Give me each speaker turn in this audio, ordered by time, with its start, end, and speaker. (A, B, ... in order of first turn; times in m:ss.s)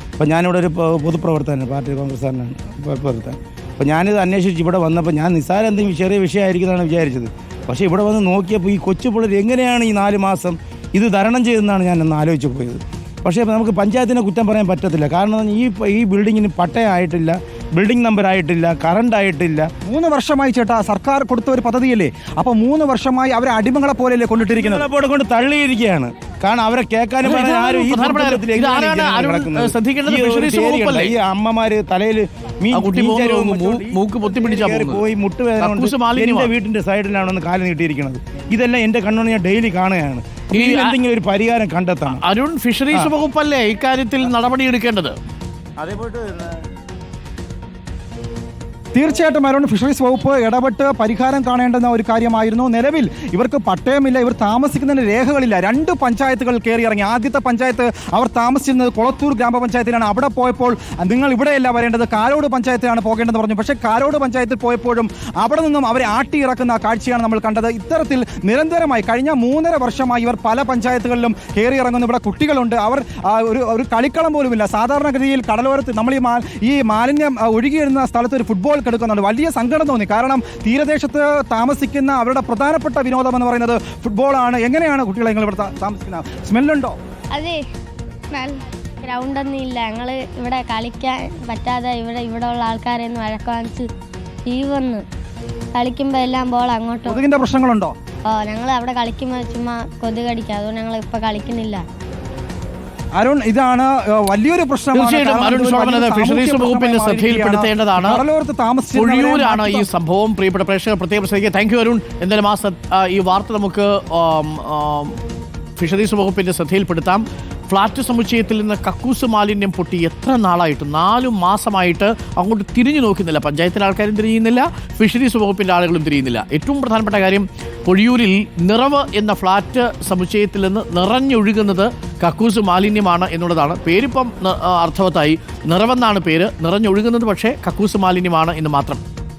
0:00.2-0:19.7 A
0:19.8-0:24.8 B
0:24.6-0:42.2 A
0:27.2-0:31.1 C
0:32.7-0:35.0 C
0:35.6-0:36.5 C
0:40.5-0:41.0 C
0:42.2-0:45.1 C
0:45.8-0:46.6 A
0:48.9-1:27.0 B
1:27.3-1:27.6 D
1:28.3-1:33.9 D
1:34.4-1:35.0 D
1:35.7-1:37.2 D
1:37.0-1:37.9 B
1:38.2-1:41.8 D
1:43.2-1:49.9 B
1:44.9-1:48.2 C
1:48.9-1:55.2 C
1:55.8-2:19.0 C